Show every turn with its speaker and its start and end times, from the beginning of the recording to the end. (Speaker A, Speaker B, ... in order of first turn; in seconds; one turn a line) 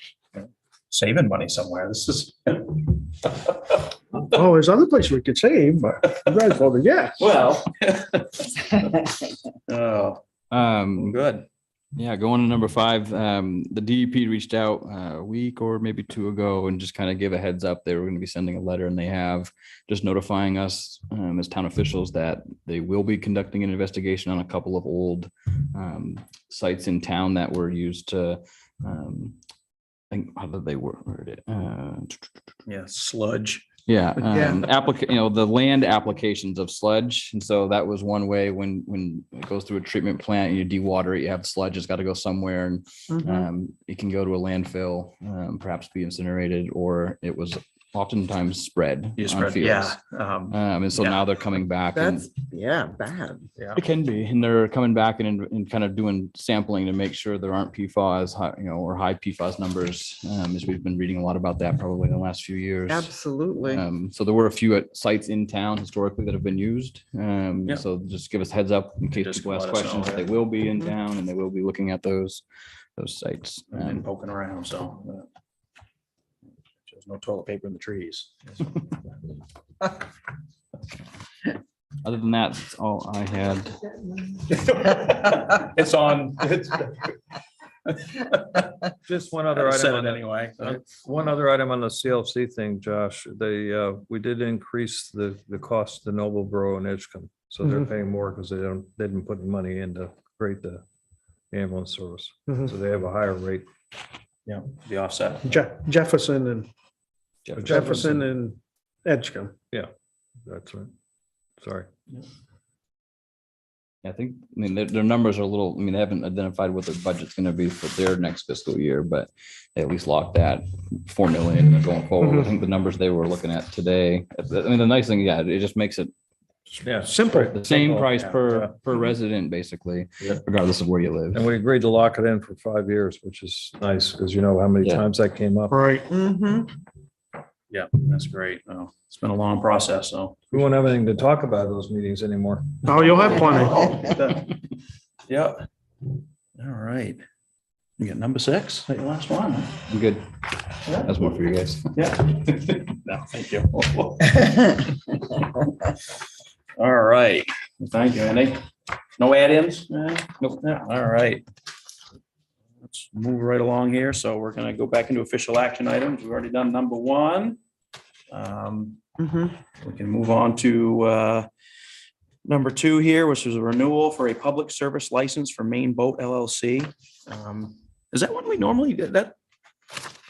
Speaker A: 0.4-3.8
Speaker B: 4.2-7.2
Speaker A: 7.2-10.2
Speaker C: 10.5-11.2
Speaker A: 10.9-11.5
Speaker C: 11.9-29.4
Speaker C: 30.1-32.3
Speaker A: 32.7-33.6
Speaker C: 33.9-50.0
Speaker D: 34.3-34.6
Speaker D: 43.1-43.5
Speaker A: 49.2-51.2
Speaker C: 50.5-52.3
Speaker D: 51.9-53.5
Speaker A: 53.6-53.8
Speaker C: 53.7-72.4
Speaker D: 62.9-63.8
Speaker A: 69.1-70.2
Speaker C: 73.0-74.0
Speaker A: 73.7-75.3
Speaker A: 76.8-78.8
Speaker C: 82.0-83.8
Speaker A: 84.5-87.2
Speaker A: 87.9-88.7
Speaker E: 89.1-100.8
Speaker A: 89.5-90.9
Speaker E: 101.5-103.7
Speaker A: 104.5-105.5
Speaker B: 105.4-106.7
Speaker C: 107.5-108.0
Speaker E: 107.6-108.2
Speaker B: 107.6-109.5
Speaker E: 110.5-110.9
Speaker E: 111.6-111.9
Speaker C: 114.0-126.1
Speaker E: 126.8-128.7
Speaker C: 127.2-131.5
Speaker E: 131.3-135.8
Speaker B: 135.7-136.1
Speaker D: 136.1-136.8
Speaker A: 137.7-140.5
Speaker E: 140.5-142.9
Speaker B: 142.8-144.0
Speaker A: 143.2-144.5
Speaker A: 145.3-145.6
Speaker A: 146.6-147.2
Speaker A: 148.0-149.8
Speaker C: 149.9-150.3
Speaker A: 150.8-151.1
Speaker C: 150.9-151.9
Speaker A: 151.9-155.9
Speaker A: 156.8-161.4
Speaker A: 162.8-167.6
Speaker A: 168.3-169.0
Speaker D: 169.2-169.5
Speaker A: 169.8-171.5
Speaker A: 172.4-179.3